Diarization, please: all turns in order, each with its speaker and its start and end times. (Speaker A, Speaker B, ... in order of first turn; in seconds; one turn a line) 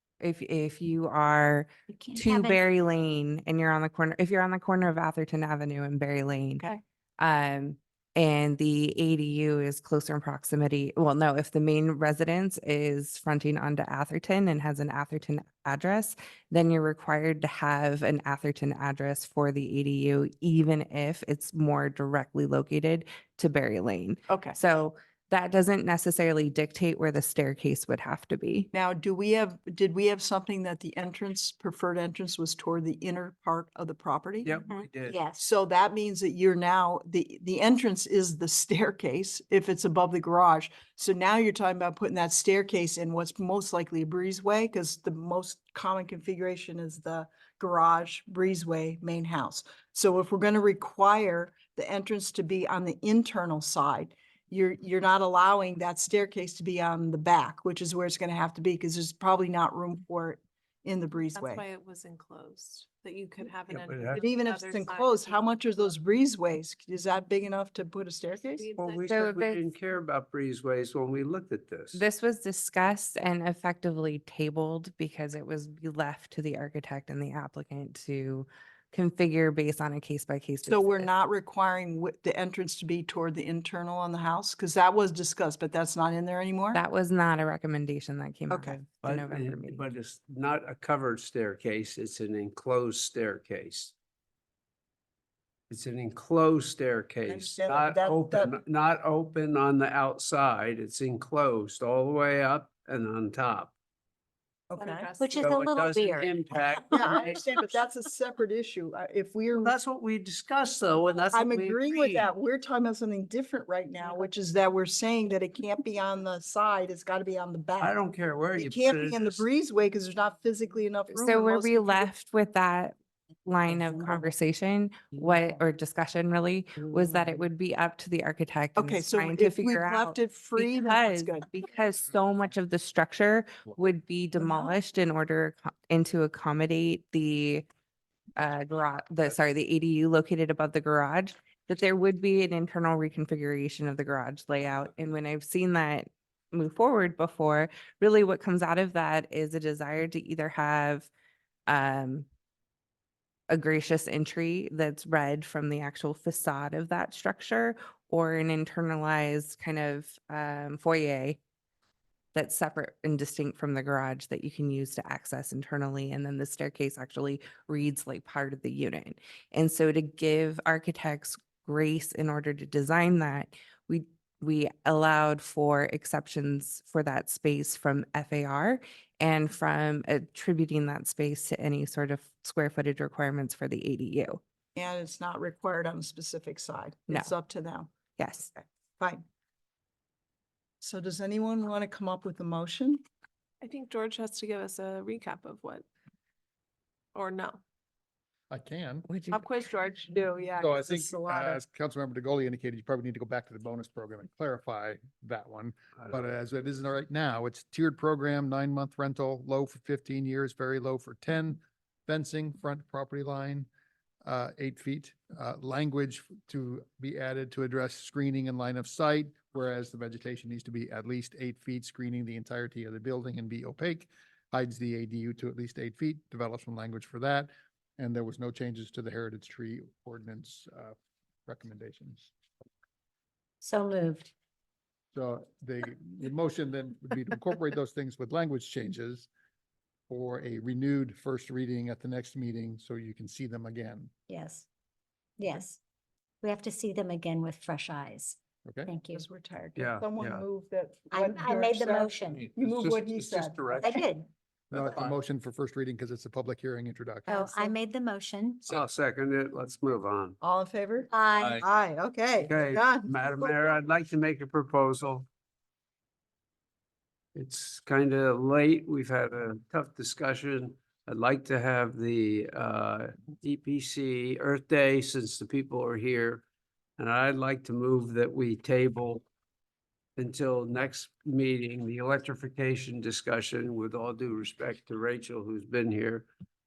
Speaker A: 0.2-6.7
Speaker B: 1.9-2.6
Speaker A: 7.2-28.7
Speaker C: 24.3-24.6
Speaker C: 28.7-34.6
Speaker D: 34.4-35.2
Speaker B: 34.7-35.4
Speaker C: 35.4-61.6
Speaker E: 61.3-65.5
Speaker D: 63.7-64.2
Speaker C: 64.1-68.7
Speaker E: 68.5-69.2
Speaker D: 68.8-72.0
Speaker A: 69.0-69.6
Speaker A: 71.9-81.1
Speaker C: 80.7-86.8
Speaker A: 86.7-89.8
Speaker C: 88.5-88.8
Speaker D: 89.0-93.9
Speaker D: 95.7-103.7
Speaker C: 97.3-98.5
Speaker C: 104.7-105.1
Speaker E: 104.8-105.7
Speaker B: 105.2-106.3
Speaker D: 105.3-107.8
Speaker C: 106.9-109.7
Speaker D: 109.5-112.3
Speaker C: 111.3-118.0
Speaker D: 117.8-119.4
Speaker C: 118.5-122.1
Speaker A: 121.1-137.6
Speaker C: 128.8-131.5
Speaker C: 134.4-134.7
Speaker A: 138.4-151.1
Speaker A: 151.7-152.3
Speaker A: 153.5-161.4
Speaker A: 162.3-184.4
Speaker C: 184.7-187.9
Speaker A: 188.2-188.5
Speaker C: 189.0-189.2
Speaker C: 190.8-193.0
Speaker E: 193.6-195.8
Speaker E: 197.1-197.6
Speaker F: 198.5-199.1
Speaker A: 199.1-199.5
Speaker E: 199.3-200.4
Speaker C: 200.2-201.6
Speaker F: 200.6-213.7
Speaker F: 214.2-230.9
Speaker F: 231.5-232.3
Speaker B: 233.6-234.3
Speaker F: 235.1-239.3
Speaker F: 240.1-244.1
Speaker B: 244.3-244.7
Speaker B: 245.4-245.8
Speaker B: 246.4-249.2
Speaker F: 248.6-248.9
Speaker C: 249.1-253.9
Speaker D: 249.8-250.4
Speaker B: 251.1-252.5
Speaker D: 252.5-254.0
Speaker B: 253.7-254.3
Speaker F: 254.7-257.4
Speaker D: 254.7-255.1
Speaker B: 257.3-258.7
Speaker D: 258.7-260.4
Speaker C: 260.4-263.5
Speaker B: 261.1-261.6
Speaker D: 262.4-265.2
Speaker D: 267.3-276.4
Speaker D: 277.0-279.2
Speaker D: 280.2-286.3